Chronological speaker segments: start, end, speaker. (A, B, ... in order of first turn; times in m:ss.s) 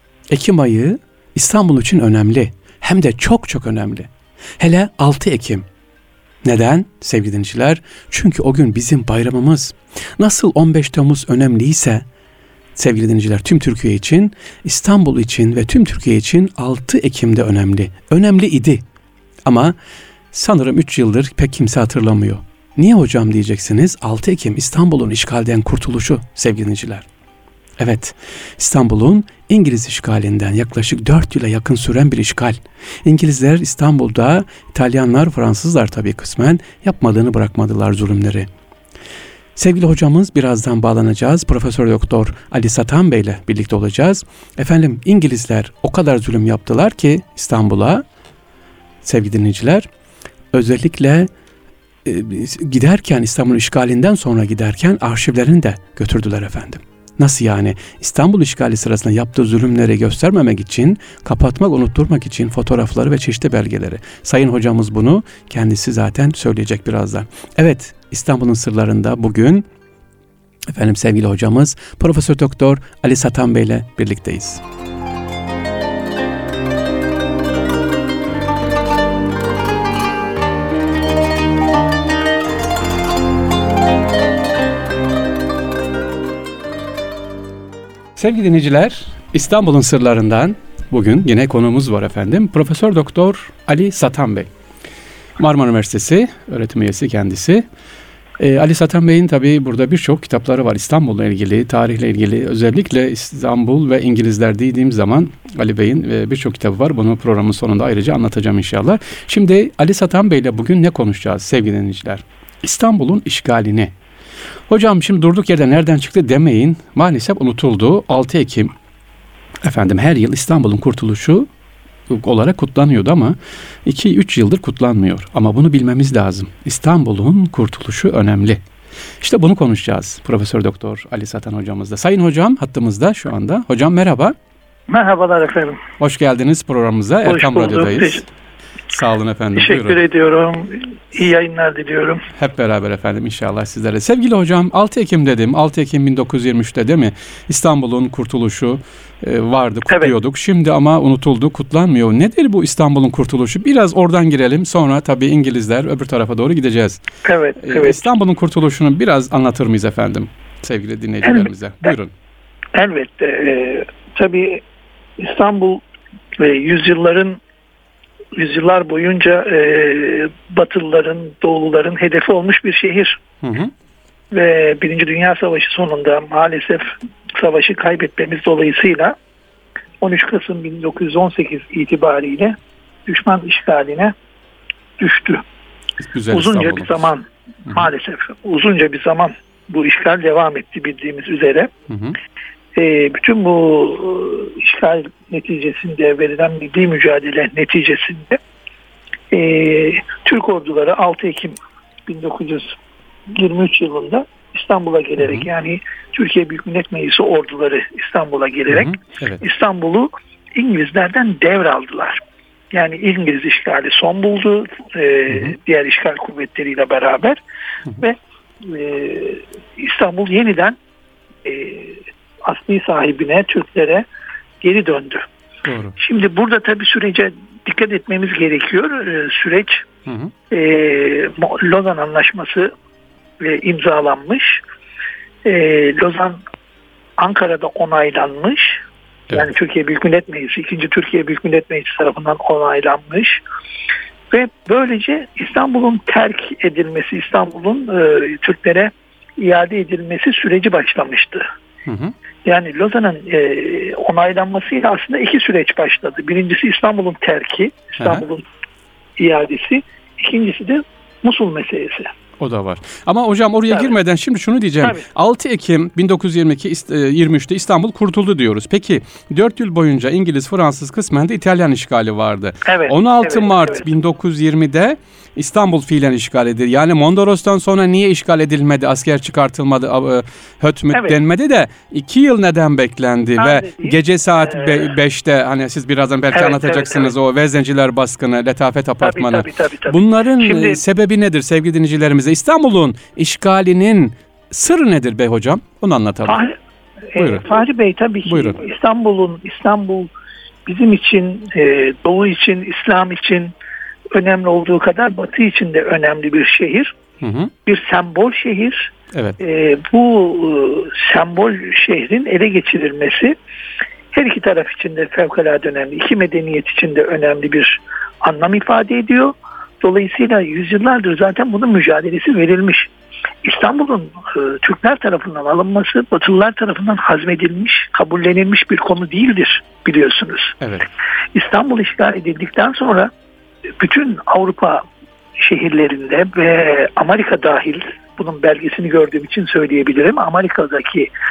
0:00.3-0:05.6 A
0:06.4-0:12.0 A
0:12.8-0:18.8 A
0:19.5-0:19.8 A
0:20.3-0:27.1 A
0:27.8-0:38.5 A
0:39.6-0:48.0 A
0:49.0-0:49.9 A
0:50.5-0:51.3 A
0:52.0-1:09.7 A
1:10.7-1:14.6 A
1:28.2-1:34.5 A
1:35.4-1:37.6 A
1:38.4-1:53.9 A
1:54.7-1:58.7 A
1:59.6-2:01.5 A
2:02.1-2:08.6 A
2:09.2-2:14.4 A
2:14.9-2:15.8 B
2:16.0-2:18.3 A
2:17.2-2:18.2 B
2:18.9-2:20.0 A
2:19.6-2:22.2 B
2:22.4-2:37.0 A
2:37.2-2:38.0 B
2:37.6-2:42.1 A
2:41.2-2:41.9 B
2:42.7-2:44.6 B
2:45.2-2:45.8 B
2:46.4-2:47.4 B
2:48.4-2:53.2 B
2:53.4-2:53.7 A
2:54.3-2:59.2 B
3:00.0-3:04.2 B
3:05.0-3:05.4 B
3:06.0-3:07.1 A
3:06.3-3:11.7 B
3:11.9-3:12.2 A
3:12.8-3:18.4 B
3:19.3-3:22.8 B
3:23.3-3:32.2 B
3:25.2-3:25.5 A
3:28.7-3:29.4 A
3:32.7-3:37.4 B
3:35.3-3:35.6 A
3:38.0-3:40.8 B
3:41.4-3:44.1 B
3:44.6-3:45.3 B
3:45.6-3:46.0 A
3:46.0-3:49.8 B
3:50.1-3:50.3 A
3:50.5-3:52.7 B
3:53.4-3:54.6 B
3:55.4-3:56.4 B
3:57.2-3:58.8 B
3:59.3-4:03.4 B
4:04.3-4:11.4 B
4:11.9-4:12.2 A
4:12.4-4:18.5 B
4:18.0-4:18.2 A
4:19.2-4:22.1 B
4:22.4-4:56.4 A
4:32.7-4:33.9 B
4:43.4-4:44.9 B
4:46.3-4:47.1 B
4:49.0-4:50.8 B
4:56.3-4:56.6 B
4:57.1-5:00.1 B
4:57.2-4:57.5 A
4:58.3-4:58.6 A
5:00.7-5:03.5 B
5:04.1-5:07.0 B
5:07.2-5:07.5 A
5:07.7-5:13.4 B
5:09.1-5:09.4 A
5:14.1-5:22.9 B
5:23.4-5:30.6 B
5:30.6-5:30.9 A
5:31.4-5:33.1 B
5:33.8-5:34.8 B
5:35.4-5:41.1 B